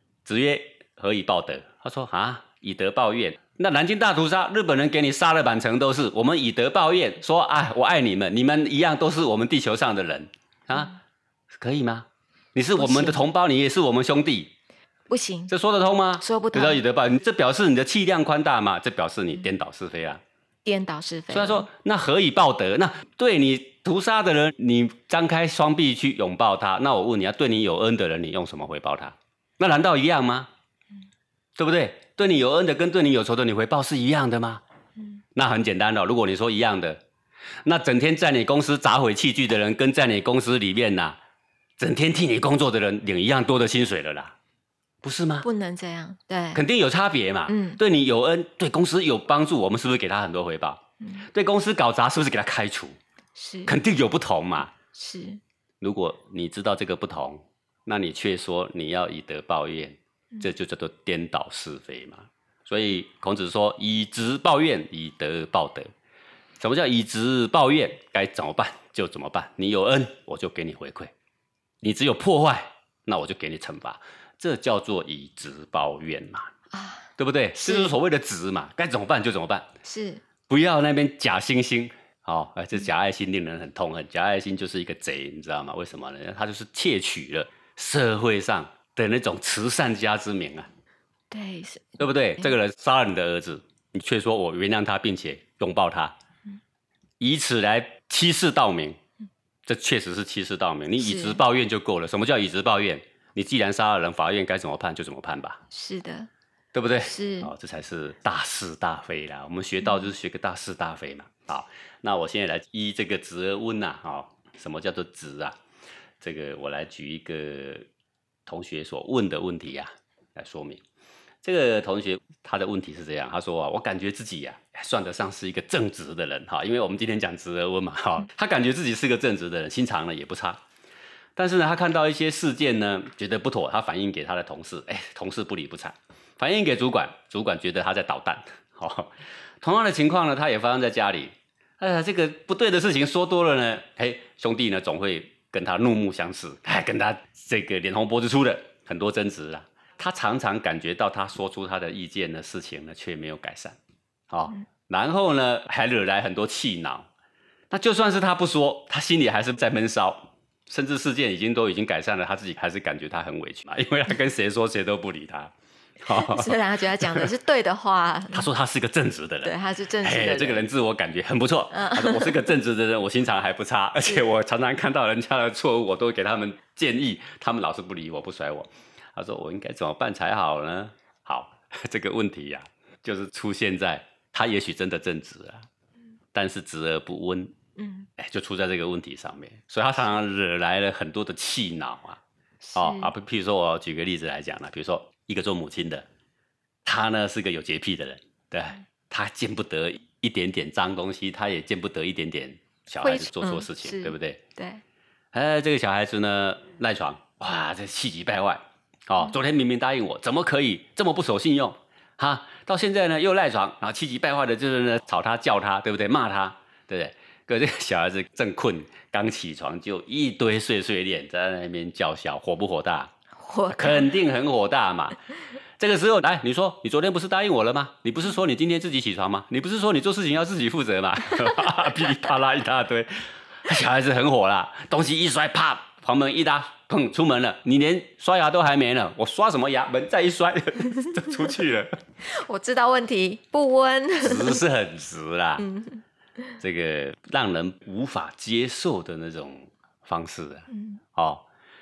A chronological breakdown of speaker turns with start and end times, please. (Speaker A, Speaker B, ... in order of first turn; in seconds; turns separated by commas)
Speaker A: 0.3-10.9, Speaker A: 11.6-14.5, Speaker B: 12.8-13.2, Speaker B: 15.1-15.5, Speaker A: 15.5-20.2, Speaker B: 16.2-16.8, Speaker B: 20.6-21.7, Speaker A: 21.3-30.5, Speaker A: 31.6-34.6, Speaker A: 35.4-37.0, Speaker A: 37.6-41.2, Speaker A: 41.8-44.4, Speaker A: 45.0-45.5, Speaker B: 45.4-46.6, Speaker A: 46.5-53.0, Speaker B: 47.5-47.8, Speaker B: 51.0-51.3, Speaker B: 53.4-53.8, Speaker A: 53.7-54.7, Speaker B: 54.9-55.4, Speaker A: 55.8-65.9, Speaker A: 66.6-71.1, Speaker A: 71.8-76.5, Speaker B: 76.7-78.0, Speaker A: 77.2-79.7, Speaker B: 79.8-80.2, Speaker A: 80.5-90.7, Speaker B: 91.3-92.5, Speaker A: 92.0-96.2, Speaker A: 97.2-99.0, Speaker A: 99.7-105.6, Speaker B: 101.0-101.4, Speaker B: 105.7-106.3, Speaker A: 106.7-115.6, Speaker B: 107.0-107.5, Speaker B: 109.8-110.1, Speaker A: 116.2-117.9, Speaker A: 118.5-120.8, Speaker A: 121.4-130.6, Speaker A: 131.4-153.8, Speaker A: 154.3-157.1, Speaker A: 157.7-167.3, Speaker B: 166.0-168.5, Speaker A: 168.3-185.7, Speaker B: 169.4-170.7, Speaker B: 171.7-172.4, Speaker A: 186.3-187.6, Speaker B: 187.8-188.1, Speaker A: 188.2-192.2, Speaker B: 192.6-193.1, Speaker A: 192.8-196.1, Speaker A: 196.8-204.4, Speaker B: 203.0-204.8, Speaker A: 205.3-223.1, Speaker B: 223.4-224.2, Speaker A: 223.7-225.2, Speaker A: 225.8-242.0, Speaker B: 242.2-244.6, Speaker A: 244.2-245.7, Speaker B: 245.6-246.0, Speaker A: 246.6-251.4, Speaker B: 250.7-251.0